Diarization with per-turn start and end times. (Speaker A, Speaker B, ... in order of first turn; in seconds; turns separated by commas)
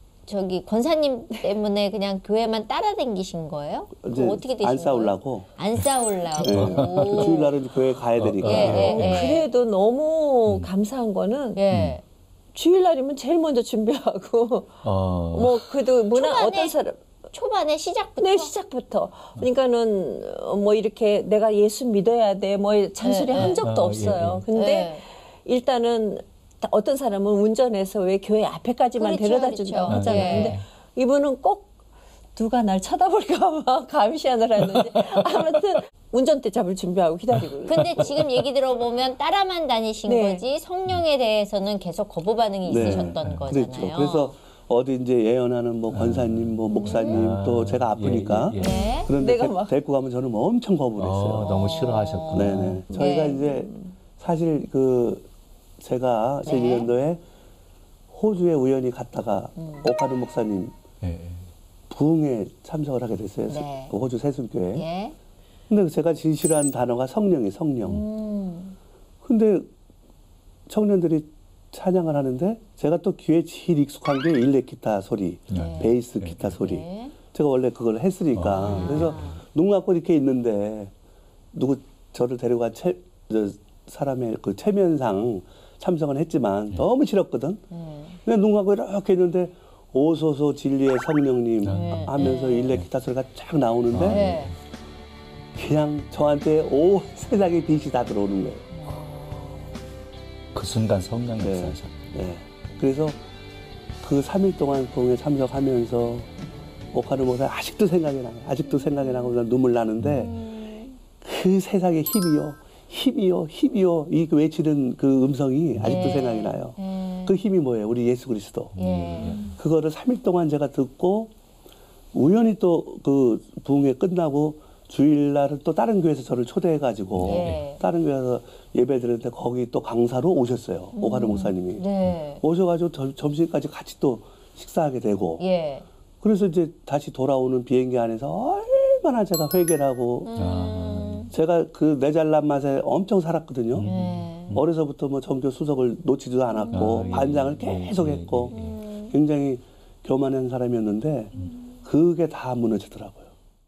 Speaker A: 0.3-7.6, Speaker B: 4.0-5.5, Speaker C: 5.8-7.5, Speaker B: 6.4-9.1, Speaker C: 8.1-9.3, Speaker A: 8.4-9.5, Speaker D: 8.7-11.6, Speaker A: 11.6-12.0, Speaker C: 11.7-12.0, Speaker D: 12.5-17.0, Speaker C: 14.8-15.6, Speaker A: 16.1-16.8, Speaker A: 17.3-18.5, Speaker D: 18.2-31.7, Speaker A: 23.0-23.7, Speaker C: 23.4-24.4, Speaker A: 24.5-25.0, Speaker A: 29.0-30.6, Speaker C: 29.9-30.6, Speaker D: 32.4-38.1, Speaker A: 37.7-44.3, Speaker C: 37.8-38.0, Speaker D: 40.1-40.5, Speaker B: 42.7-51.5, Speaker C: 42.8-43.5, Speaker D: 42.8-43.1, Speaker C: 45.9-49.0, Speaker A: 46.8-47.3, Speaker A: 48.6-49.1, Speaker D: 49.2-49.7, Speaker C: 51.0-52.8, Speaker A: 51.4-53.5, Speaker B: 52.3-55.3, Speaker D: 53.0-53.9, Speaker B: 55.8-57.2, Speaker A: 56.5-56.9, Speaker B: 58.1-60.8, Speaker A: 59.6-59.9, Speaker C: 61.0-61.5, Speaker B: 61.9-64.9, Speaker A: 63.5-63.9, Speaker A: 64.7-65.2, Speaker B: 65.7-68.0, Speaker A: 67.8-68.8, Speaker B: 69.2-69.7, Speaker B: 70.7-80.9, Speaker C: 75.5-76.6, Speaker A: 75.5-75.9, Speaker A: 76.6-77.1, Speaker C: 78.3-79.4, Speaker A: 78.5-79.4, Speaker B: 81.5-87.6, Speaker A: 87.7-88.2, Speaker B: 88.2-94.2, Speaker C: 91.6-92.8, Speaker A: 91.7-92.8, Speaker C: 93.9-94.5, Speaker A: 94.1-94.5, Speaker B: 95.5-98.7, Speaker A: 98.7-99.7, Speaker C: 100.5-102.1, Speaker B: 101.4-103.2, Speaker B: 104.0-106.3, Speaker B: 106.9-110.5, Speaker A: 108.7-109.3, Speaker A: 110.2-111.0, Speaker B: 111.2-121.3, Speaker A: 115.8-117.4, Speaker C: 118.8-119.6, Speaker A: 118.8-119.5, Speaker B: 122.1-131.9, Speaker C: 127.1-127.7, Speaker A: 127.2-127.8, Speaker A: 130.9-132.4, Speaker B: 132.4-135.4, Speaker A: 135.4-135.9, Speaker B: 136.2-140.3, Speaker A: 140.3-141.3, Speaker C: 140.3-141.3, Speaker B: 141.3-143.9, Speaker C: 143.7-144.7, Speaker A: 143.8-144.6, Speaker B: 144.5-153.3, Speaker A: 146.6-147.2, Speaker C: 146.7-148.8, Speaker A: 148.5-149.2